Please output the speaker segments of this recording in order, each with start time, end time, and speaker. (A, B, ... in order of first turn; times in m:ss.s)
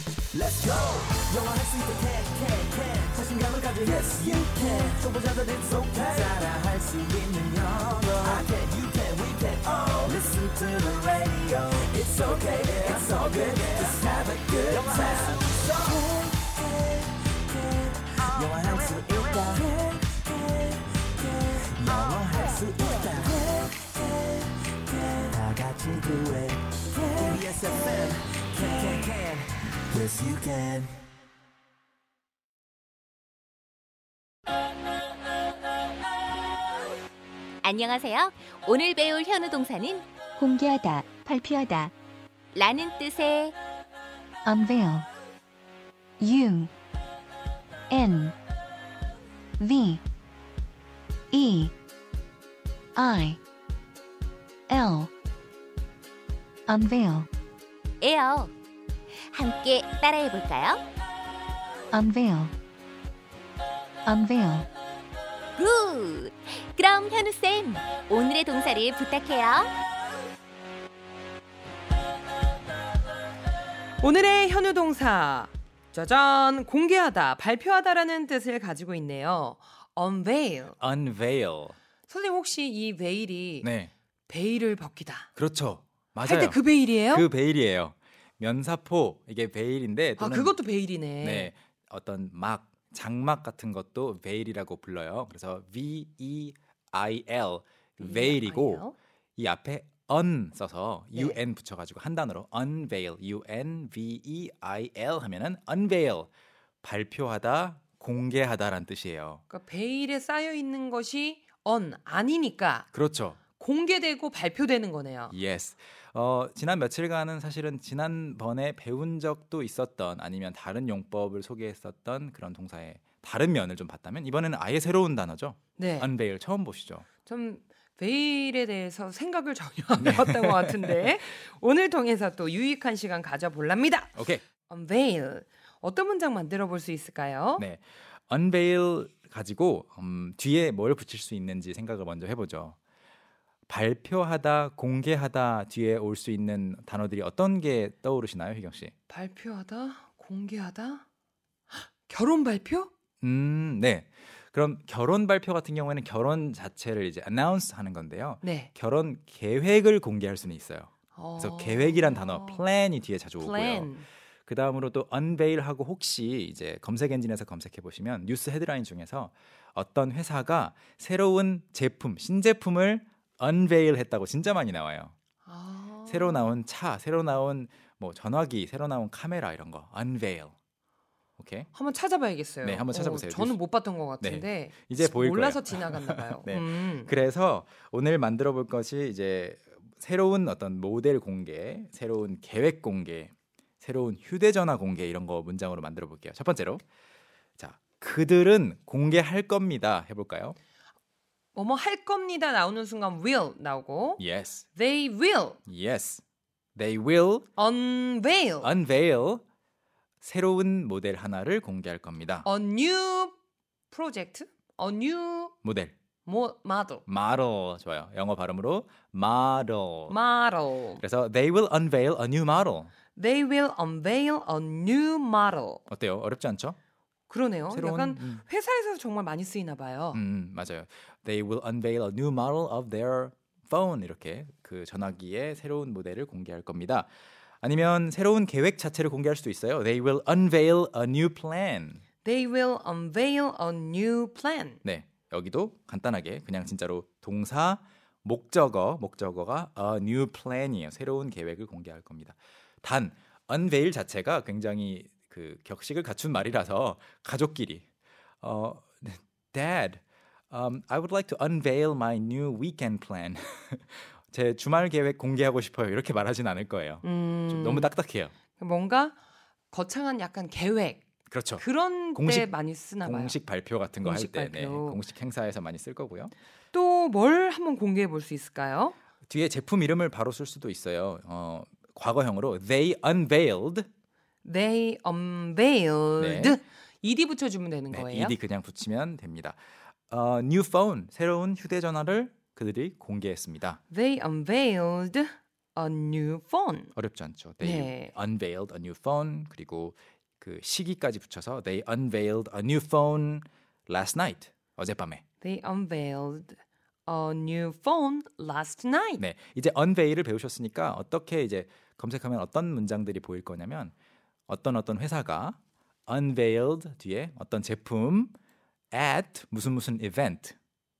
0:00.3-0:16.3 A
0:17.6-0:23.9 A
0:24.9-0:30.9 A
0:37.6-0:40.0 B
0:40.4-0:41.9 C
0:42.5-0:43.6 B
0:44.4-0:45.1 C
0:46.2-0:46.7 C
0:47.9-0:48.3 C
0:49.6-0:50.0 C
0:51.3-0:51.7 C
0:53.0-0:53.4 C
0:54.7-0:55.1 C
0:56.7-0:57.3 C
0:58.0-0:58.5 B
0:59.3-1:00.8 B
1:01.9-1:02.5 C
1:04.1-1:04.7 C
1:05.6-1:09.7 B
1:14.0-1:20.8 D
1:20.8-1:21.8 E
1:22.1-1:23.7 D
1:23.6-1:23.9 E
1:24.3-1:25.3 D
1:25.4-1:30.6 E
1:26.2-1:27.3 D
1:30.2-1:31.5 D
1:31.2-1:38.9 E
1:38.0-1:39.0 D
1:39.4-1:46.3 E
1:41.1-1:41.4 D
1:46.8-1:49.4 E
1:49.5-1:52.9 D
1:52.9-1:53.4 E
1:53.6-1:55.3 D
1:55.3-2:07.1 E
2:05.8-2:06.1 D
2:07.2-2:14.2 D
2:10.0-2:11.1 E
2:14.2-2:14.4 E
2:14.7-2:17.7 D
2:17.6-2:22.8 E
2:23.7-2:28.9 E
2:29.1-2:31.0 D
2:31.7-2:32.9 D
2:33.2-2:43.9 E
2:38.4-2:38.7 D
2:41.2-2:42.6 D
2:43.4-2:44.1 D
2:44.5-2:55.1 E
2:55.4-2:56.4 D
2:56.1-3:00.5 E
3:01.4-3:01.7 E
3:01.7-3:07.1 D
3:02.6-3:03.6 E
3:04.2-3:16.8 E
3:17.6-3:20.6 E
3:21.5-3:24.2 D
3:24.2-3:24.7 E
3:24.7-3:25.6 D
3:25.7-3:26.2 E
3:26.8-3:27.5 E
3:27.6-3:28.7 D
3:28.6-3:29.4 E
3:30.2-3:32.5 E
3:32.4-3:33.4 D
3:33.9-3:35.5 D
3:35.6-3:35.9 E
3:36.2-3:37.0 D
3:37.1-3:40.2 E
3:40.1-3:41.0 D
3:41.0-3:42.9 E
3:43.2-3:45.8 D
3:45.9-3:46.8 E
3:47.3-3:50.2 D
3:47.7-3:48.4 E
3:50.1-3:57.1 E
3:57.6-4:02.0 E
4:02.2-4:04.8 D
4:04.8-4:17.8 E
4:18.4-4:28.3 E
4:27.0-4:27.9 D
4:28.5-4:29.2 D
4:29.7-4:31.0 D
4:31.3-4:31.6 E
4:31.6-4:33.4 D
4:32.2-4:32.5 E
4:33.0-4:36.3 E
4:34.0-4:35.0 D
4:36.7-4:39.0 D
4:39.3-4:43.9 E
4:44.4-4:48.4 D
4:46.2-4:46.6 E
4:47.9-4:53.8 E
4:53.9-4:56.9 D
4:56.9-5:05.2 E
4:57.6-4:58.1 D
5:05.4-5:09.2 D
5:09.2-5:13.9 E
5:14.5-5:18.3 E
5:18.9-5:20.5 E